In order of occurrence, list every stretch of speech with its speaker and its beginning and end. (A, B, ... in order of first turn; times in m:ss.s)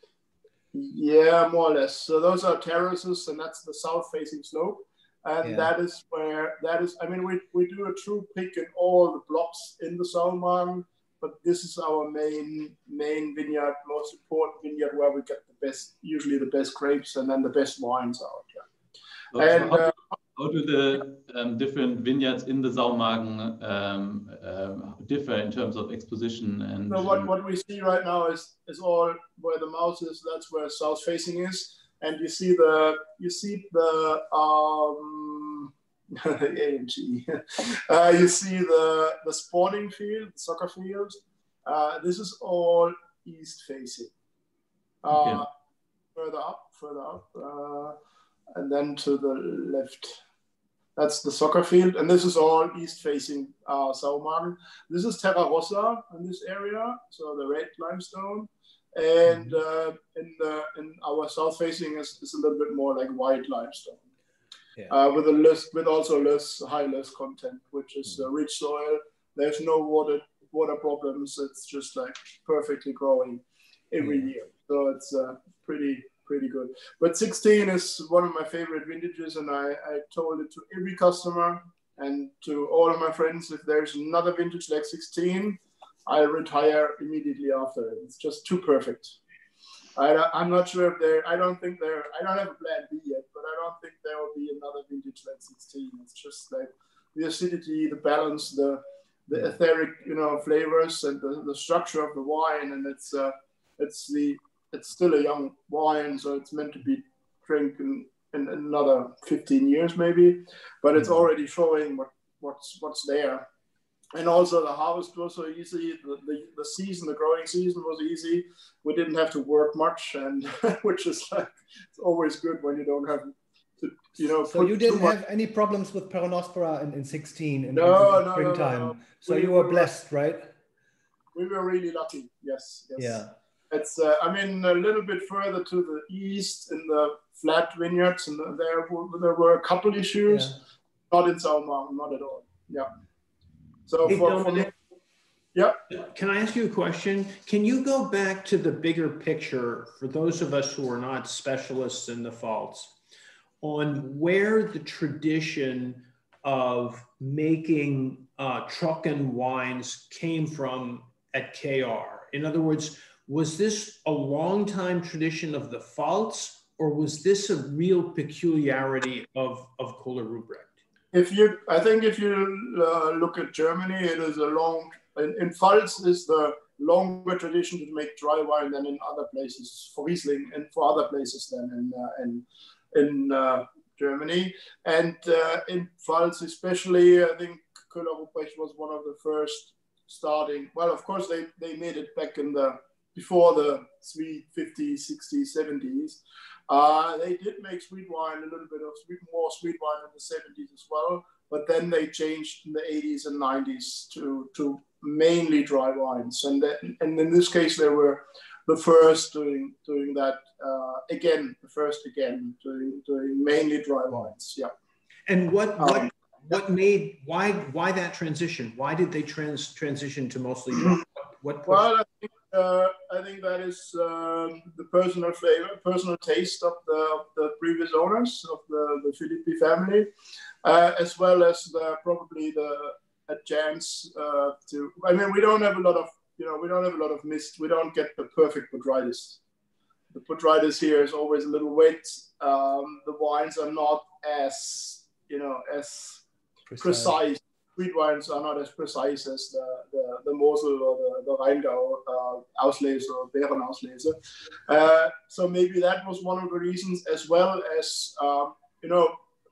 0:00.7-0:18.6 A
0:05.4-0:05.7 B
0:19.3-0:27.3 C
0:19.3-0:20.0 A
0:26.9-0:44.1 A
0:45.0-0:45.5 A
0:45.1-0:45.4 C
0:46.1-0:47.9 A
0:48.5-0:50.2 A
0:51.0-1:04.0 A
0:59.3-0:59.6 B
1:04.9-1:29.2 A
1:14.0-1:14.3 B
1:29.9-1:53.4 A
1:54.1-2:05.2 A
2:04.4-2:10.5 B
2:07.7-2:09.9 A
2:11.3-2:22.9 A
2:13.0-2:13.3 B
2:20.3-2:20.6 B
2:23.9-2:24.7 A
2:24.0-2:24.7 D
2:25.5-2:25.8 A
2:25.9-2:33.0 D
2:33.6-2:50.7 D
2:51.1-3:34.7 A
3:35.3-3:41.9 D
3:35.8-3:36.0 A
3:41.6-3:50.1 A
3:50.6-3:59.4 A
4:00.1-4:06.2 A
4:06.7-4:07.2 B
4:06.8-4:14.2 A
4:14.7-4:19.1 A